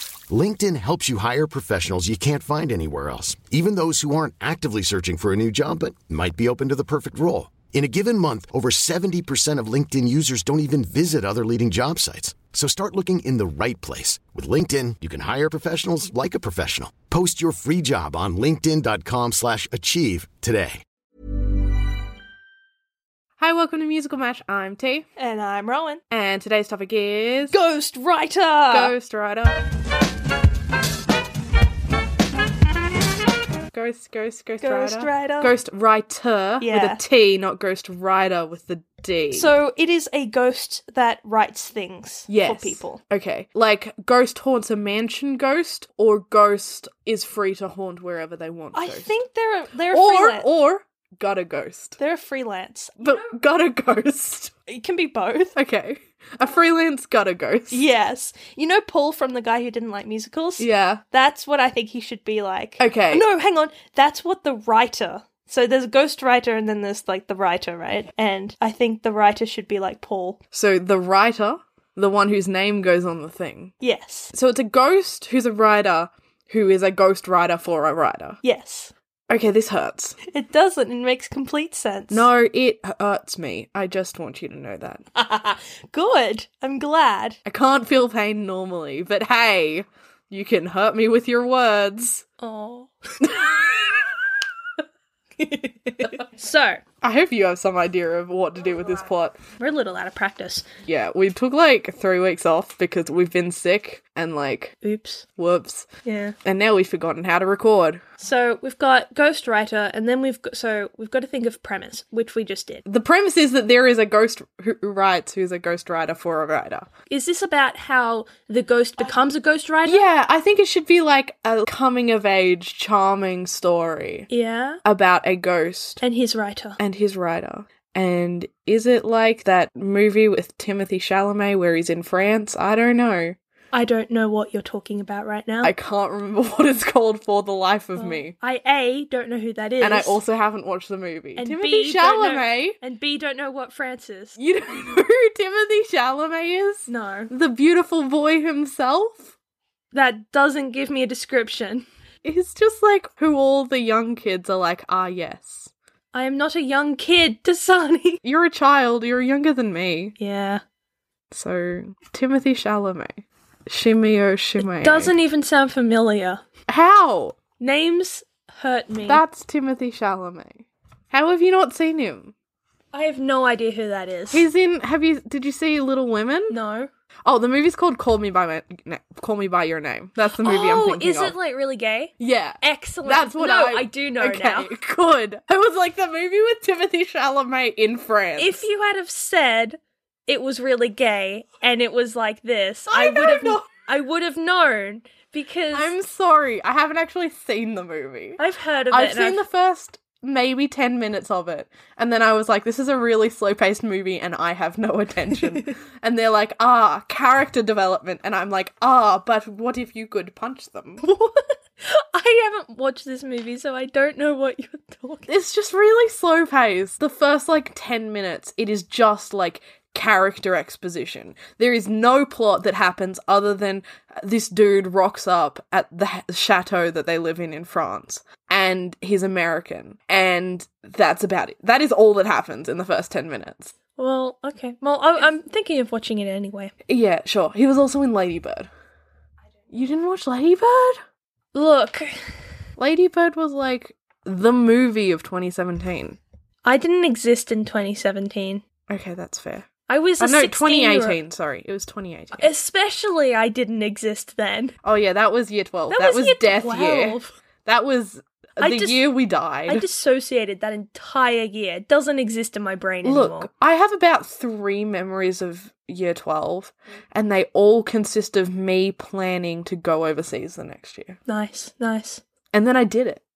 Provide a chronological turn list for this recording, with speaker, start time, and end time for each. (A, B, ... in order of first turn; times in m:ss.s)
0:00.3-0:20.8 A
0:23.4-0:25.1 B
0:25.2-0:26.0 C
0:26.1-0:27.6 B
0:27.5-0:28.9 C
0:28.7-0:29.6 B
0:33.7-0:39.5 B
0:34.6-0:35.5 C
0:36.6-0:37.0 C
0:39.3-0:43.0 C
0:42.3-0:49.1 B
0:48.7-0:50.5 C
0:49.9-0:52.0 B
0:52.0-0:53.0 C
0:53.0-0:54.5 B
0:54.7-0:55.6 C
0:55.6-0:57.8 B
0:57.7-1:10.4 C
1:00.6-1:01.0 B
1:02.8-1:03.3 B
1:10.5-1:13.7 B
1:13.8-1:14.3 C
1:14.3-1:18.4 B
1:18.4-1:18.9 C
1:19.3-1:20.2 B
1:20.3-1:22.3 C
1:22.1-1:25.1 B
1:25.2-1:27.4 C
1:27.4-1:32.3 B
1:32.4-1:33.5 C
1:33.2-1:33.6 B
1:35.4-1:36.8 C
1:37.0-1:39.4 B
1:39.6-1:40.7 C
1:40.8-1:44.8 B
1:44.8-1:45.2 C
1:45.4-1:45.9 B
1:46.0-1:46.4 C
1:46.4-1:48.0 B
1:48.2-1:52.8 C
1:52.9-1:56.9 B
1:57.1-2:00.0 C
1:59.8-2:04.3 B
2:04.3-2:04.8 C
2:04.8-2:06.0 B
2:06.0-2:06.8 C
2:06.8-2:13.4 B
2:13.7-2:15.7 C
2:15.6-2:18.3 B
2:18.0-2:20.2 C
2:19.8-2:22.8 B
2:21.4-2:24.4 C
2:24.4-2:29.3 B
2:26.9-2:27.3 C
2:29.9-2:31.9 C
2:32.2-2:35.7 B
2:36.1-2:38.2 C
2:38.2-2:40.2 B
2:40.2-2:40.6 C
2:41.3-2:45.1 B
2:44.7-2:46.4 C
2:46.7-2:47.4 B
2:47.6-2:49.2 C
2:49.0-2:52.3 B
2:52.9-2:54.5 C
2:54.3-2:56.6 B
2:56.5-2:56.9 C
2:57.2-3:01.4 B
3:00.4-3:04.7 C
3:02.2-3:08.6 B
3:08.4-3:15.9 C
3:12.9-3:13.7 B
3:15.7-3:18.4 B
3:18.4-3:19.4 C
3:18.9-3:31.0 B
3:31.0-3:35.3 C
3:35.3-3:53.7 B
3:54.0-3:56.7 C
3:56.9-3:58.7 B
3:59.7-4:01.0 B
4:01.5-4:02.2 C
4:02.8-4:06.2 B
4:06.6-4:08.6 C
4:08.9-4:12.5 B
4:09.9-4:11.2 C
4:12.4-4:14.8 C
4:14.8-4:19.9 B
4:15.9-4:17.4 C
4:18.6-4:19.1 C
4:19.7-4:23.5 C
4:23.0-4:31.2 B
4:31.3-4:32.2 C
4:32.5-4:33.2 B